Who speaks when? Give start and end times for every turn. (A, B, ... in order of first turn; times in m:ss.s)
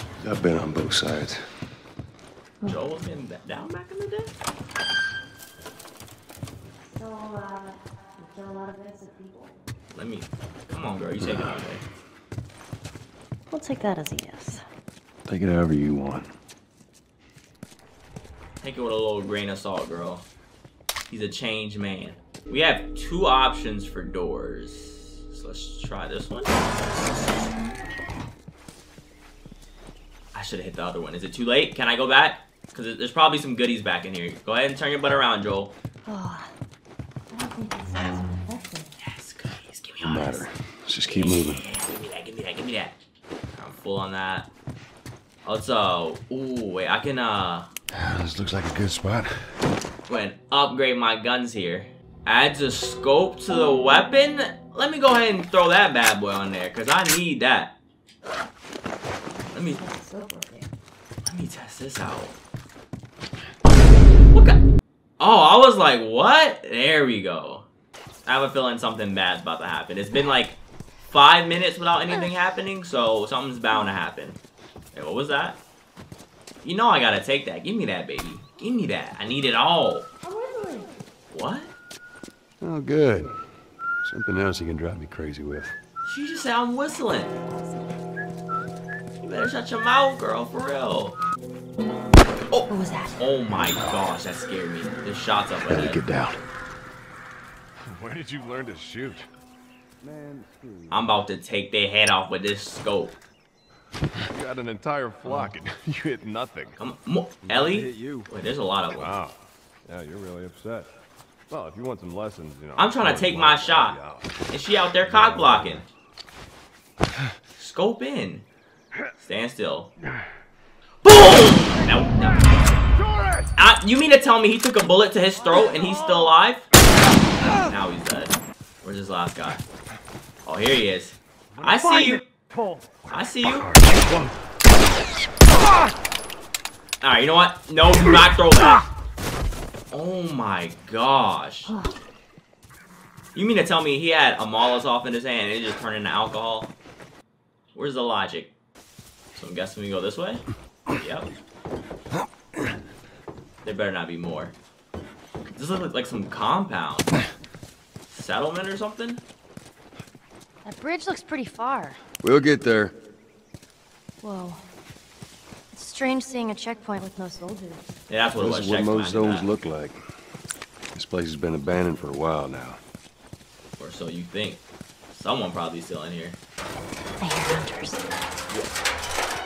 0:00.2-0:01.4 A
0:02.7-0:04.3 B
0:06.9-0:09.5 C
0:09.9-0:11.8 B
0:11.2-0:11.6 A
0:13.5-0:14.6 C
0:15.3-0:16.3 A
0:18.6-0:20.2 B
0:21.1-0:26.6 B
0:30.3-0:35.7 B
0:36.0-0:36.5 C
0:37.3-0:38.9 C
0:39.0-0:40.4 B
0:40.0-0:41.6 A
0:41.1-0:43.0 B
0:43.6-0:44.5 B
0:45.4-0:47.7 B
0:47.9-0:49.5 A
0:50.1-0:57.8 B
0:59.5-1:00.7 C
0:59.5-0:59.8 B
1:01.2-1:02.3 B
1:04.3-1:04.6 B
1:05.2-1:07.6 B
1:08.2-1:14.4 B
1:14.9-1:15.6 B
1:16.6-1:20.1 B
1:20.2-1:20.9 C
1:21.3-1:21.7 B
1:22.6-1:23.3 A
1:24.0-1:25.8 A
1:26.0-1:27.3 B
1:29.2-1:31.2 B
1:32.5-1:36.0 B
1:32.7-1:33.1 C
1:35.7-1:36.4 A
1:37.8-1:39.2 D
1:40.9-1:43.2 B
1:44.3-1:46.7 D
1:45.1-1:45.8 A
1:45.2-1:45.5 B
1:46.8-1:49.1 B
1:47.6-1:48.1 A
1:49.0-1:49.3 D
1:49.8-1:50.9 D
1:51.5-1:54.2 D
1:52.8-1:54.0 B
1:54.5-1:55.8 B
1:55.1-1:55.5 D
1:57.6-1:58.4 B
1:59.2-1:59.9 B
2:01.0-2:02.5 B
2:03.6-2:06.7 B
2:07.6-2:09.6 B
2:10.4-2:12.2 B
2:13.1-2:13.7 B
2:13.6-2:14.3 A
2:17.0-2:18.8 B
2:19.9-2:21.7 B
2:21.7-2:21.9 C
2:23.3-2:26.7 B
2:27.7-2:28.5 B
2:29.3-2:30.4 B
2:31.0-2:31.3 B
2:33.6-2:34.5 B
2:35.5-2:37.1 B
2:38.1-2:39.2 B
2:40.6-2:42.0 C
2:42.2-2:42.9 A
2:44.2-2:44.6 C
2:45.7-2:47.8 C
2:48.1-2:49.5 B
2:48.4-2:50.0 A
2:50.9-2:52.8 A
2:53.8-2:56.4 B
2:57.2-2:58.0 C